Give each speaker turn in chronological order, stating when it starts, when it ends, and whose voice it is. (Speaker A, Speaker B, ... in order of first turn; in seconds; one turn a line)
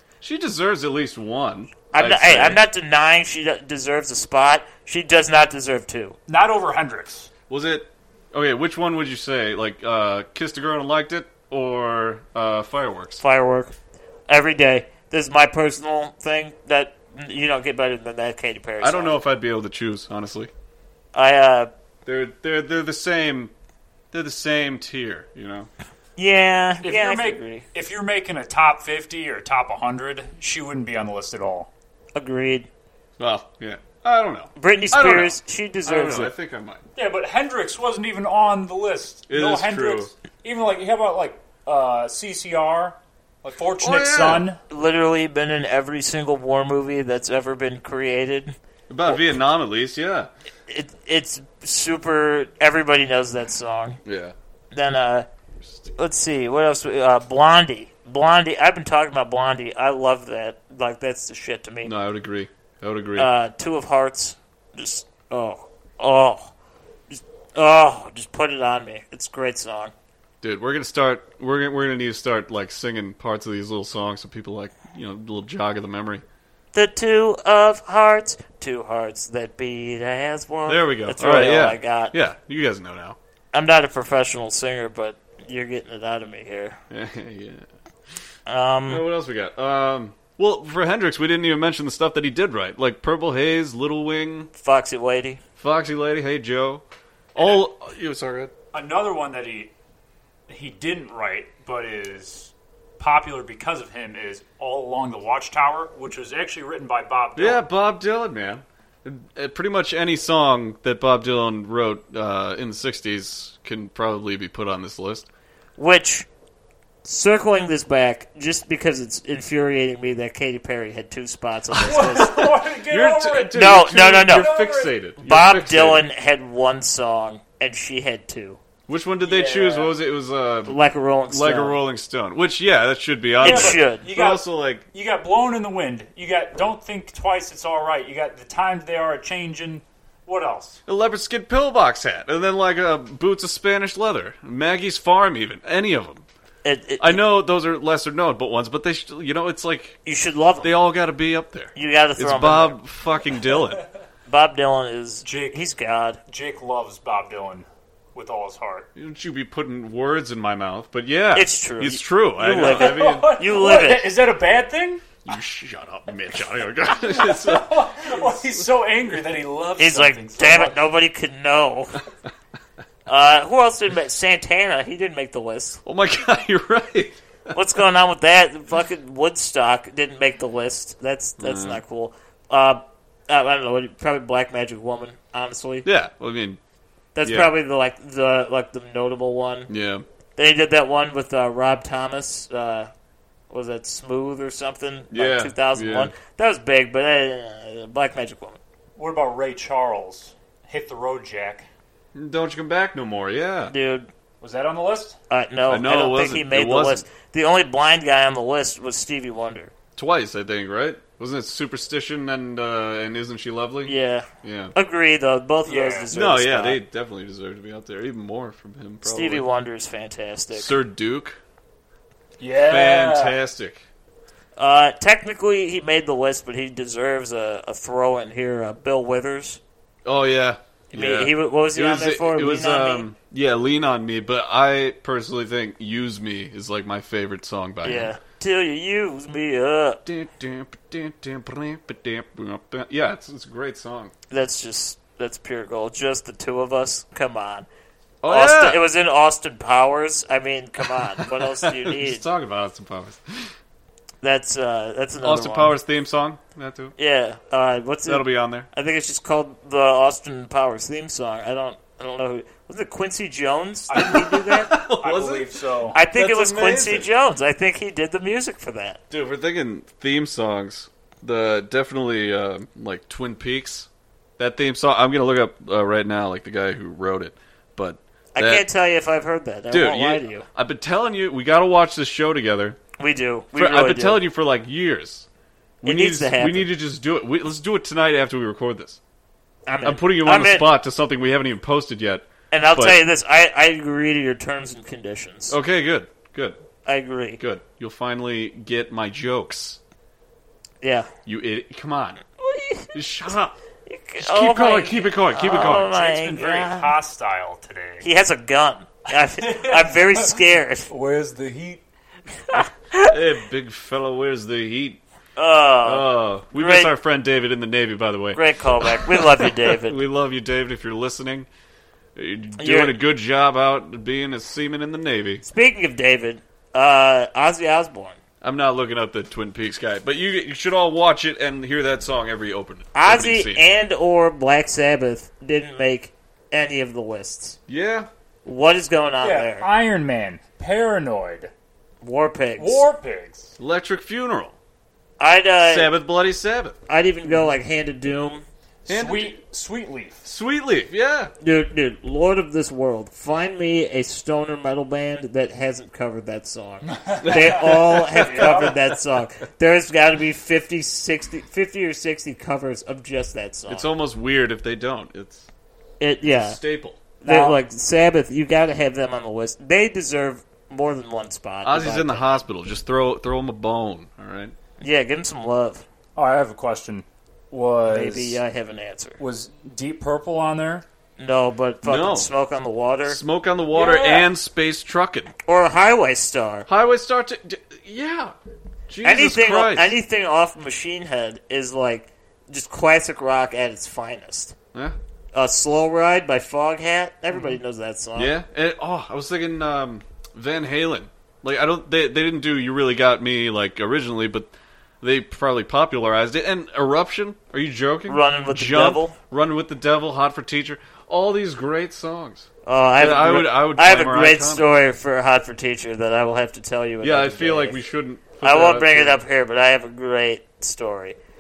Speaker A: 0.2-2.6
Speaker B: 1.9-6.2
Speaker C: 6.3-7.3
Speaker A: 7.5-13.2
Speaker B: 13.2-13.7
Speaker B: 14.3-19.2
Speaker A: 18.8-20.5
Speaker B: 21.1-21.7
Speaker A: 22.1-23.5
Speaker A: 24.1-25.7
Speaker B: 26.2-27.6
Speaker C: 26.8-31.7
Speaker B: 32.1-32.7
Speaker A: 33.2-36.8
Speaker B: 34.6-36.3
Speaker C: 37.0-44.6
Speaker A: 39.3-40.1
Speaker A: 43.8-44.5
Speaker B: 44.7-48.5
Speaker A: 48.9-50.3
Speaker B: 50.7-54.0
Speaker A: 54.0-54.4
Speaker B: 54.7-55.3
Speaker B: 56.0-61.9
Speaker A: 61.8-63.3
Speaker B: 63.2-66.5
Speaker B: 67.1-69.9
Speaker A: 70.4-76.2
Speaker B: 76.7-82.2
Speaker A: 80.7-83.2
Speaker B: 83.5-86.8
Speaker A: 86.9-87.7
Speaker B: 88.5-89.0
Speaker A: 88.9-94.5
Speaker B: 94.6-95.4
Speaker A: 95.6-96.8
Speaker A: 97.3-98.5
Speaker C: 97.4-97.7
Speaker C: 98.7-99.7
Speaker C: 100.5-107.7
Speaker A: 107.4-115.3
Speaker B: 115.8-116.3
Speaker B: 117.0-122.5
Speaker A: 121.7-126.0
Speaker C: 121.8-123.6
Speaker B: 123.5-124.5
Speaker C: 124.3-125.0
Speaker B: 125.2-128.6
Speaker A: 128.9-134.8
Speaker C: 129.2-129.9
Speaker B: 130.7-131.8
Speaker B: 133.4-134.1
Speaker C: 133.4-140.8
Speaker A: 140.9-146.2
Speaker B: 146.6-147.2
Speaker A: 147.0-150.0
Speaker B: 150.1-150.7
Speaker A: 150.6-153.8
Speaker B: 151.8-152.8
Speaker B: 154.3-156.2
Speaker C: 155.2-155.7
Speaker C: 156.3-158.9
Speaker A: 158.9-163.4
Speaker B: 161.3-164.1
Speaker C: 162.5-165.2
Speaker A: 165.2-168.7
Speaker C: 167.0-170.8
Speaker B: 169.8-172.0
Speaker B: 173.1-175.8
Speaker A: 175.8-177.6
Speaker B: 177.5-185.9
Speaker A: 181.4-181.8
Speaker A: 185.8-186.6
Speaker B: 187.2-189.7
Speaker A: 187.2-187.5
Speaker A: 189.7-190.0
Speaker B: 190.4-192.9
Speaker B: 193.5-198.6
Speaker A: 195.1-196.1
Speaker C: 199.0-201.7
Speaker A: 202.1-203.7
Speaker B: 203.7-204.1
Speaker C: 204.4-205.2
Speaker B: 205.3-209.7
Speaker A: 205.7-207.1
Speaker A: 210.0-214.7
Speaker B: 213.9-216.8
Speaker C: 215.7-216.1
Speaker A: 216.1-219.5
Speaker B: 219.0-220.8
Speaker A: 220.5-221.4
Speaker C: 222.4-223.4
Speaker A: 222.6-223.8
Speaker B: 224.6-229.6
Speaker A: 230.1-238.2
Speaker B: 230.9-233.1
Speaker B: 237.8-240.0
Speaker A: 240.1-244.1
Speaker B: 244.3-247.7
Speaker A: 248.2-248.8
Speaker B: 248.3-252.2
Speaker A: 250.8-253.5
Speaker B: 254.2-255.8
Speaker A: 255.2-256.9
Speaker B: 257.0-264.7
Speaker A: 258.1-258.7
Speaker C: 263.9-266.0
Speaker A: 263.9-267.1
Speaker B: 265.9-269.0
Speaker A: 269.1-278.7
Speaker B: 278.4-280.5
Speaker A: 279.7-282.8
Speaker B: 283.0-284.2
Speaker A: 283.5-285.3
Speaker A: 285.8-289.0
Speaker B: 285.8-286.7
Speaker B: 289.7-290.7
Speaker A: 289.8-293.0
Speaker B: 292.5-295.6
Speaker A: 295.5-296.6
Speaker B: 296.9-297.4
Speaker A: 297.4-299.8
Speaker B: 300.8-301.1
Speaker A: 301.3-302.2
Speaker B: 302.4-302.9
Speaker A: 302.9-303.6
Speaker B: 303.9-306.9
Speaker A: 304.2-305.9
Speaker C: 305.5-308.1
Speaker B: 308.0-310.9
Speaker C: 309.4-311.8
Speaker B: 312.5-313.1
Speaker A: 313.0-315.0
Speaker B: 315.4-316.9
Speaker A: 315.8-321.5
Speaker B: 318.4-320.0
Speaker A: 322.1-325.4
Speaker B: 322.6-323.0
Speaker B: 325.4-328.2
Speaker A: 328.4-333.7
Speaker B: 332.9-337.6
Speaker A: 337.7-338.1
Speaker B: 338.4-339.7
Speaker C: 339.2-341.5
Speaker B: 342.0-342.9
Speaker C: 342.6-343.5
Speaker A: 343.6-344.6
Speaker B: 345.2-345.9
Speaker A: 345.6-346.8
Speaker B: 346.9-348.4
Speaker C: 347.3-347.5
Speaker C: 348.9-350.3
Speaker A: 348.9-349.4
Speaker A: 350.2-351.3
Speaker B: 351.4-363.9
Speaker C: 356.9-358.8
Speaker A: 357.2-358.8
Speaker A: 363.7-365.5
Speaker B: 366.0-366.6
Speaker A: 366.2-367.0
Speaker B: 367.2-372.3
Speaker C: 367.2-367.6
Speaker A: 371.6-374.6
Speaker B: 374.8-375.9
Speaker C: 376.2-378.4
Speaker B: 377.9-379.2
Speaker C: 379.2-380.9
Speaker B: 381.2-383.2
Speaker A: 381.8-382.3
Speaker A: 383.1-385.3
Speaker C: 383.7-384.3
Speaker B: 385.5-386.7
Speaker A: 386.7-388.4
Speaker A: 388.9-390.0
Speaker B: 389.0-394.6
Speaker B: 395.3-398.4
Speaker A: 398.2-414.6
Speaker B: 408.1-409.2
Speaker B: 412.6-417.8
Speaker A: 417.0-419.2
Speaker B: 418.4-421.2